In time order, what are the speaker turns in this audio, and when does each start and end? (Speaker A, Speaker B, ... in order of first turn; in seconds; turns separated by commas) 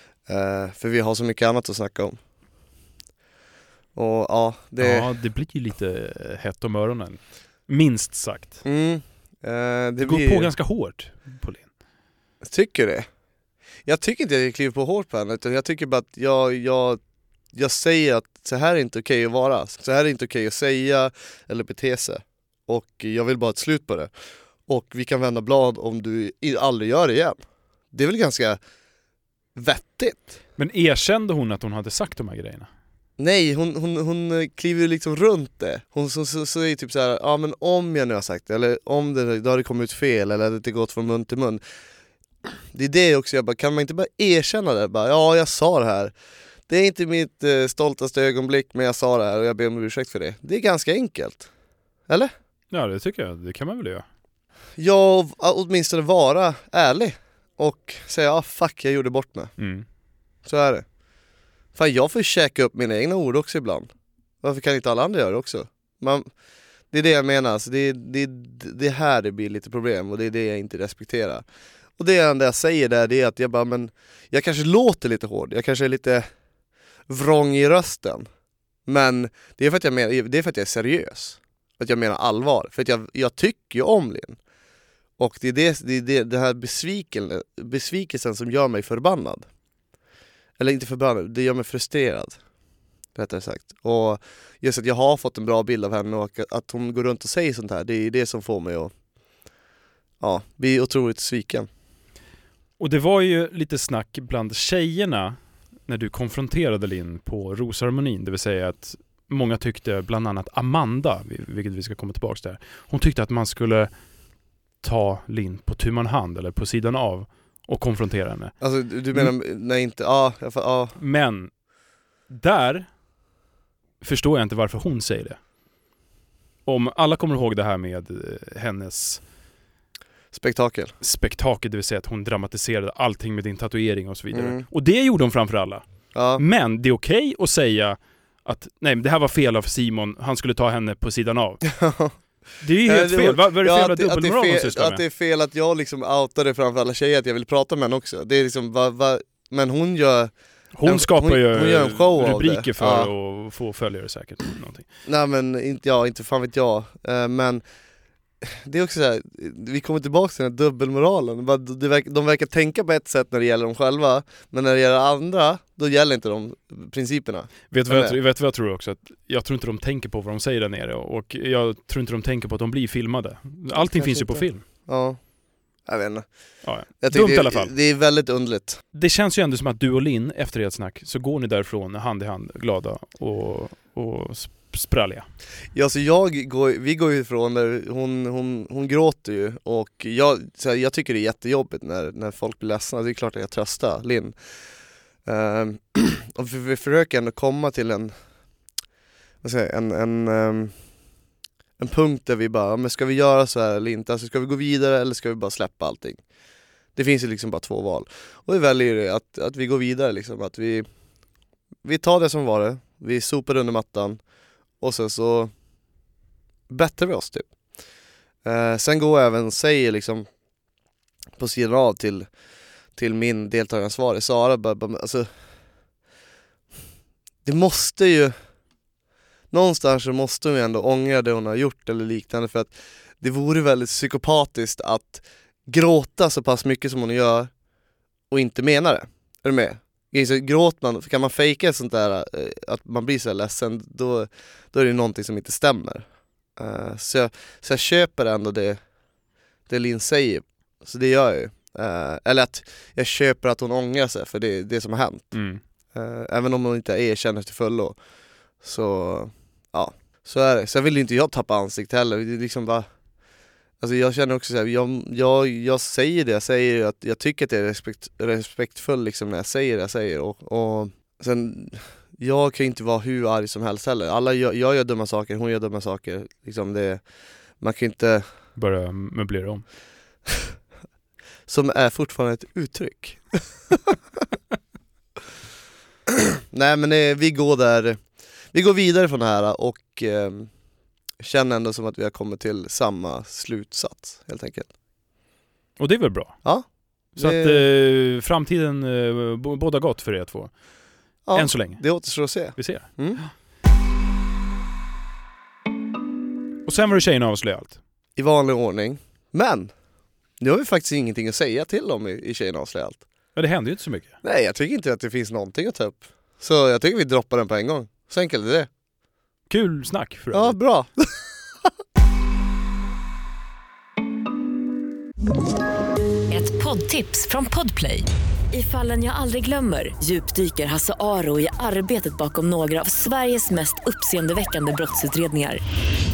Speaker A: 0.2-2.2, Speaker A: 3.9-5.1, Speaker B: 4.8-8.6, Speaker A: 8.6-10.5, Speaker B: 10.0-11.7, Speaker A: 12.4-13.1, Speaker A: 13.8-17.0, Speaker A: 17.5-24.1, Speaker A: 24.6-27.4, Speaker A: 27.9-28.6, Speaker A: 29.5-30.3, Speaker B: 30.6-32.7, Speaker A: 33.2-41.6, Speaker A: 42.7-46.1, Speaker A: 46.7-51.5, Speaker B: 52.7-54.0, Speaker A: 54.8-59.5, Speaker B: 59.6-59.8, Speaker A: 60.4-60.9, Speaker A: 61.7-63.9, Speaker A: 64.4-66.3, Speaker A: 66.9-71.4, Speaker A: 72.0-76.3, Speaker A: 77.1-78.3, Speaker A: 78.8-84.4, Speaker A: 85.2-89.5, Speaker A: 90.6-92.4, Speaker A: 93.1-98.9, Speaker A: 100.2-101.7, Speaker B: 102.8-113.9, Speaker B: 114.8-118.6, Speaker A: 118.6-121.0, Speaker B: 121.0-121.5, Speaker B: 122.3-122.9, Speaker B: 124.0-125.4, Speaker B: 126.7-129.2, Speaker A: 130.3-130.9, Speaker B: 131.0-135.8, Speaker A: 134.3-134.7, Speaker A: 136.1-136.4, Speaker B: 136.4-141.8, Speaker A: 141.7-142.2, Speaker B: 142.6-145.0, Speaker A: 142.8-150.3, Speaker B: 150.7-154.8, Speaker A: 150.8-153.1, Speaker A: 155.0-157.6, Speaker A: 158.4-168.2, Speaker B: 167.7-174.6, Speaker A: 173.7-175.2, Speaker A: 175.8-176.3, Speaker B: 176.6-177.7, Speaker A: 177.0-178.8, Speaker B: 178.9-185.3, Speaker A: 185.7-194.3, Speaker A: 195.2-198.1, Speaker A: 199.4-200.8, Speaker A: 201.8-206.2, Speaker A: 206.9-210.9, Speaker A: 211.8-214.2, Speaker A: 214.8-215.5, Speaker A: 216.7-217.5, Speaker A: 218.4-220.3, Speaker A: 221.4-222.3, Speaker A: 222.9-225.3, Speaker A: 227.4-228.3, Speaker A: 229.5-237.5, Speaker A: 238.3-248.8, Speaker A: 249.7-255.4, Speaker B: 255.3-255.6, Speaker A: 255.9-258.0, Speaker A: 258.6-262.9, Speaker A: 263.8-278.3, Speaker B: 278.5-279.6, Speaker A: 281.5-283.9, Speaker A: 286.1-290.5, Speaker A: 291.2-294.7, Speaker B: 295.8-300.6, Speaker A: 296.4-297.7, Speaker A: 301.2-303.2, Speaker B: 301.3-303.3, Speaker B: 306.6-307.8, Speaker A: 308.1-309.7, Speaker A: 310.4-313.0, Speaker B: 313.3-314.1, Speaker A: 314.2-318.7, Speaker B: 319.5-320.6, Speaker A: 320.3-321.3, Speaker C: 326.3-335.6